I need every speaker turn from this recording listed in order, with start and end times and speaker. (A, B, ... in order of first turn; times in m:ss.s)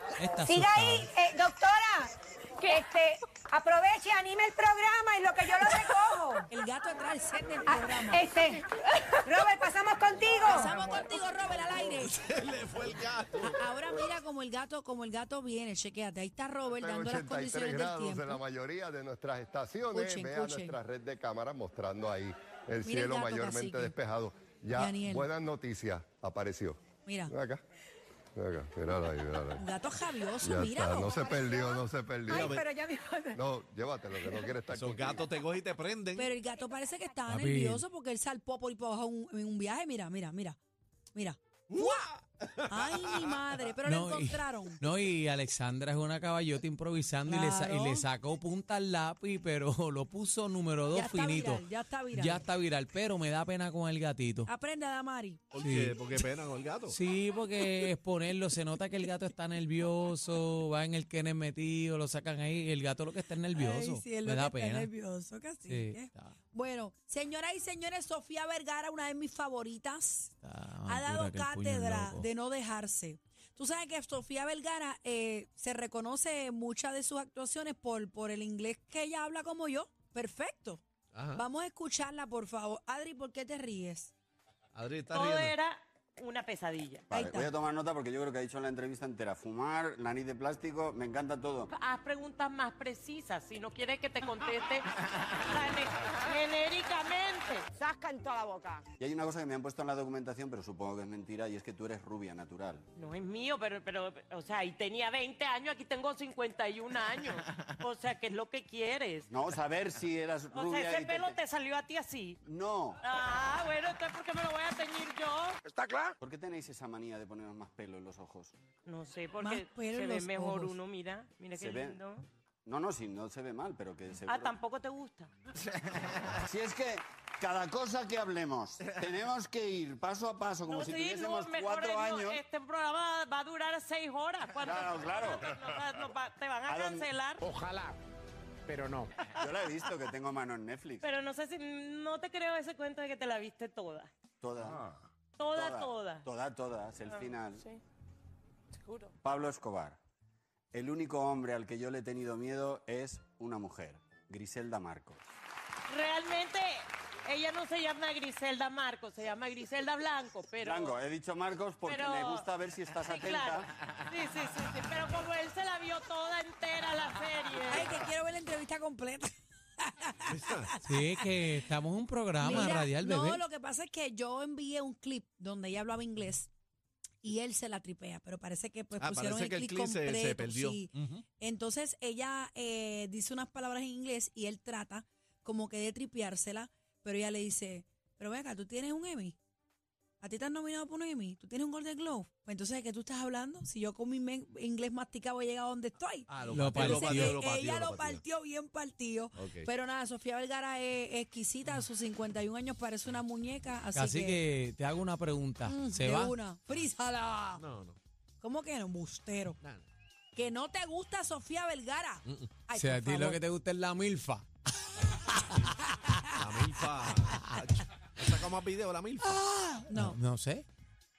0:00.2-0:01.1 A
0:00.4-0:06.5 B
0:06.5-0:08.3 C
0:07.6-0:10.7 B
0:10.4-0:12.2 C
0:12.1-0:13.6 D
0:13.5-0:18.4 C
0:16.8-0:27.6 E
0:19.9-0:20.8 C
0:22.8-0:23.9 C
0:24.7-0:25.3 C
0:27.0-0:27.3 C
0:28.4-0:29.6 E
0:29.6-0:31.2 C
0:30.4-0:32.6 E
0:31.1-0:33.4 B
0:32.3-0:32.7 D
0:33.4-0:35.3 E
0:34.7-0:36.3 D
0:36.2-0:40.6 C
0:37.3-0:37.8 A
0:41.1-0:42.1 C
0:41.7-0:43.3 D
0:42.7-0:44.8 C
0:43.8-0:54.5 A
0:47.2-0:48.0 C
0:50.9-0:52.4 C
0:54.5-0:55.4 C
0:55.5-0:57.0 D
0:55.6-0:56.0 A
0:56.9-1:04.9 A
1:03.6-1:10.3 C
1:05.7-1:06.3 A
1:10.4-1:12.3 A
1:10.8-1:20.8 C
1:21.1-1:21.4 D
1:21.3-1:24.1 C
1:24.7-1:25.5 D
1:25.1-1:27.0 F
1:27.1-1:31.7 G
1:27.1-1:27.5 C
1:31.7-1:34.9 F
1:35.4-1:37.7 F
1:39.0-1:42.8 G
1:43.0-1:49.3 F
1:49.3-1:51.4 G
1:50.5-1:52.4 F
1:52.4-1:53.0 G
1:53.0-1:55.6 F
1:56.2-1:58.5 G
1:58.8-2:02.2 F
1:59.4-2:00.8 C
2:01.6-2:02.0 G
2:02.6-2:04.6 G
2:04.2-2:05.3 F
2:06.3-2:12.4 G
2:10.6-2:17.4 F
2:14.6-2:15.4 G
2:16.6-2:17.1 G
2:19.3-2:21.0 G
2:21.0-2:24.1 F
2:24.4-2:24.8 G
2:25.4-2:26.3 F
2:25.5-2:27.6 G
2:27.0-2:27.8 F
2:28.8-2:29.1 F
2:29.2-2:30.0 G
2:30.7-2:35.2 G
2:35.9-2:41.0 F
2:40.6-2:43.7 G
2:41.8-2:42.5 F
2:43.0-2:47.9 F
2:47.7-2:51.2 C
2:50.3-2:50.8 D
2:50.8-2:53.4 A
2:52.4-2:56.5 C
2:52.5-2:52.8 D
2:57.2-3:09.4 C
2:59.0-3:01.2 D
3:10.2-3:24.4 C
3:16.3-3:18.2 D
3:16.5-3:17.4 A
3:19.4-3:19.7 D
3:23.9-3:26.4 A
3:25.6-3:27.6 C
3:27.6-3:28.0 D
3:28.4-3:29.6 C
3:29.6-3:29.9 D
3:30.3-3:33.4 C
3:32.3-3:32.6 D
3:32.7-3:35.7 A
3:36.4-3:39.4 D
3:37.3-3:37.6 A
3:39.2-3:40.6 A
3:39.9-3:40.2 C